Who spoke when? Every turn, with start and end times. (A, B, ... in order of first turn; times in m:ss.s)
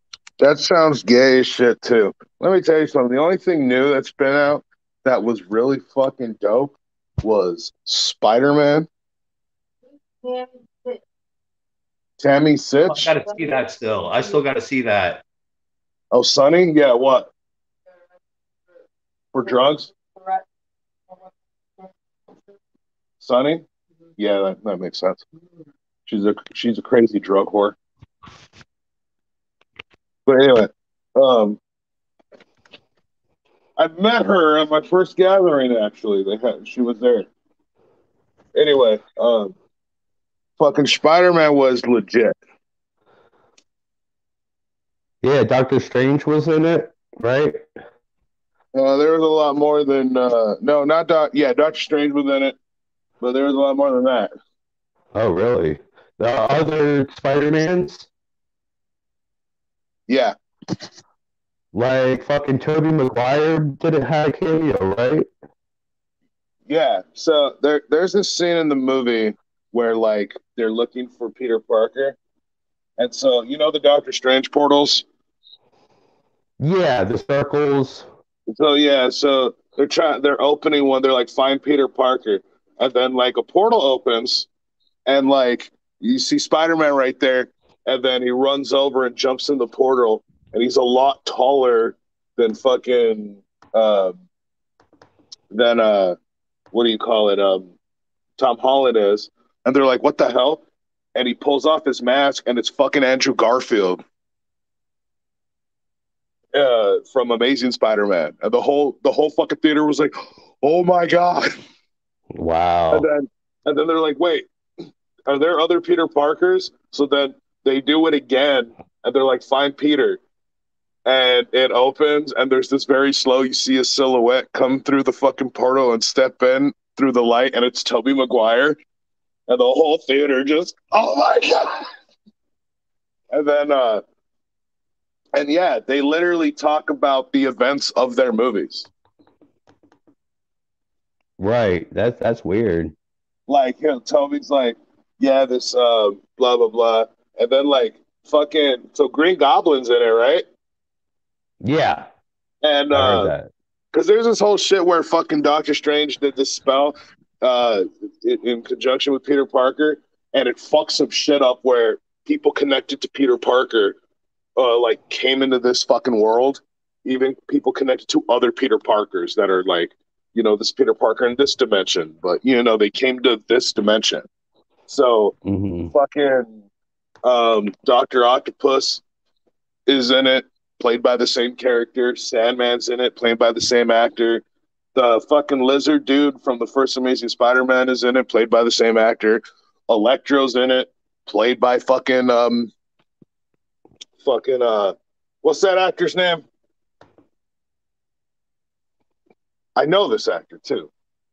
0:00.4-0:08.9 A
0:12.2-0:13.1 A
0:12.9-0:15.2 B
0:16.1-0:17.3 A
0:19.3-0:19.9 A
0:23.2-0:23.7 A
0:24.2-0:25.2 A
0:26.1-0:27.8 A
0:30.3-0:31.6 A
0:33.8-0:37.3 A
0:38.6-0:39.5 A
0:40.6-0:42.4 A
0:45.2-0:47.6 B
0:48.7-0:52.6 A
0:53.2-0:54.3 A
0:55.2-0:58.1 B
1:00.1-1:00.4 A
1:01.7-1:05.3 B
1:06.7-1:12.2 A
1:13.0-1:15.0 A
1:16.6-1:18.1 B
1:18.5-1:24.5 A
1:25.1-1:34.2 A
1:35.5-1:36.2 A
1:36.7-1:37.7 A
1:38.4-1:40.6 A
1:41.2-1:44.0 A
1:46.5-1:51.5 A
1:52.4-1:53.1 B
1:52.9-1:54.5 A
1:55.3-2:00.2 A
2:01.1-2:08.8 A
2:09.5-2:11.9 A
2:13.3-2:14.0 A
2:15.4-2:18.9 A
2:21.4-2:22.9 B
2:23.5-2:30.4 A
2:31.6-2:32.1 B
2:32.6-2:33.3 A
2:32.9-2:33.5 B
2:33.9-2:44.0 A
2:44.6-2:54.2 A
2:54.9-2:55.4 A
2:55.4-2:55.9 B
2:55.9-2:56.6 A
2:57.2-2:59.0 A
2:59.9-3:04.4 A
3:05.0-3:12.7 A
3:14.2-3:16.4 A
3:19.8-3:20.9 A